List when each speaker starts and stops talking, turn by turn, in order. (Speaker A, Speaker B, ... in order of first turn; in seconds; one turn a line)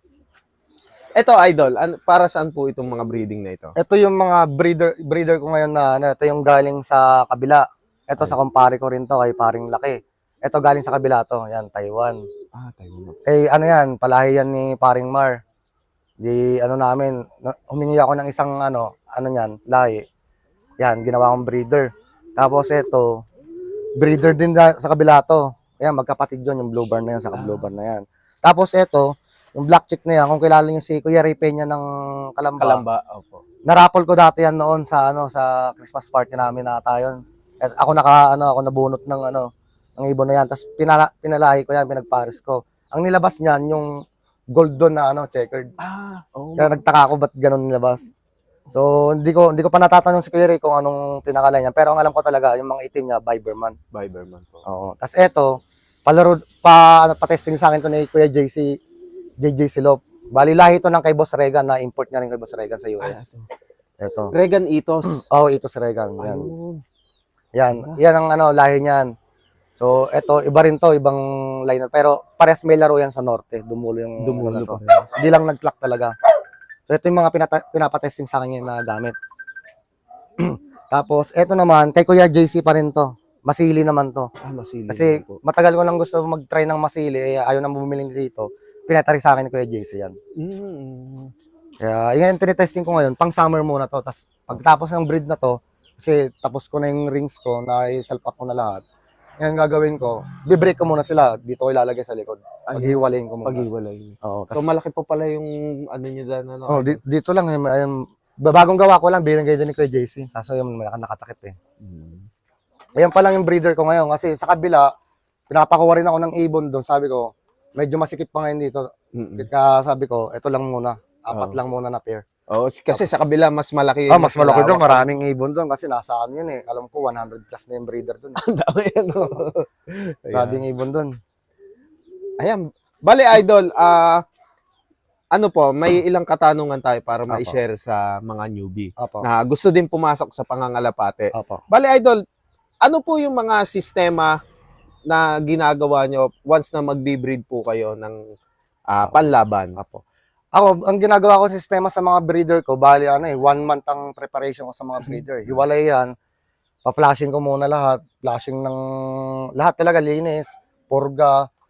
Speaker A: 1.2-3.7
Speaker B: 3.8-12.2
Speaker A: 12.5-13.2
Speaker B: 13.2-15.4
Speaker B: 16.2-20.0
Speaker B: 20.8-23.2
Speaker B: 24.0-32.8
Speaker A: 27.3-27.7
Speaker A: 32.6-33.4
Speaker B: 33.6-43.9
Speaker B: 44.5-45.7
Speaker A: 45.8-46.9
Speaker B: 46.6-48.1
Speaker B: 48.7-53.8
Speaker A: 53.9-54.6
Speaker B: 54.7-55.5
Speaker B: 56.0-58.7
Speaker B: 59.4-63.2
Speaker A: 63.0-63.5
Speaker B: 64.0-64.3
Speaker A: 64.3-65.2
Speaker B: 65.1-66.5
Speaker A: 66.2-66.8
Speaker B: 67.5-69.1
Speaker A: 67.7-68.0
Speaker B: 69.8-76.1
Speaker A: 74.2-75.1
Speaker B: 76.9-79.1
Speaker B: 80.4-84.3
Speaker A: 84.4-85.4
Speaker B: 84.9-90.2
Speaker A: 90.4-91.3
Speaker B: 91.8-98.8
Speaker B: 99.4-103.7
Speaker A: 102.7-107.0
Speaker B: 104.2-104.7
Speaker B: 106.7-111.5
Speaker A: 111.8-112.2
Speaker B: 113.0-114.9
Speaker B: 115.5-122.2
Speaker A: 119.1-119.5
Speaker A: 121.3-121.6
Speaker A: 122.5-125.1
Speaker B: 124.1-128.4
Speaker A: 128.4-130.6
Speaker B: 130.3-131.1
Speaker A: 132.4-134.2
Speaker A: 135.3-142.2
Speaker B: 137.3-137.6
Speaker B: 139.0-139.2
Speaker B: 141.3-141.6
Speaker A: 142.8-144.4
Speaker A: 145.1-148.2
Speaker A: 148.9-149.8
Speaker B: 149.8-150.0
Speaker B: 150.5-156.1
Speaker B: 156.8-161.4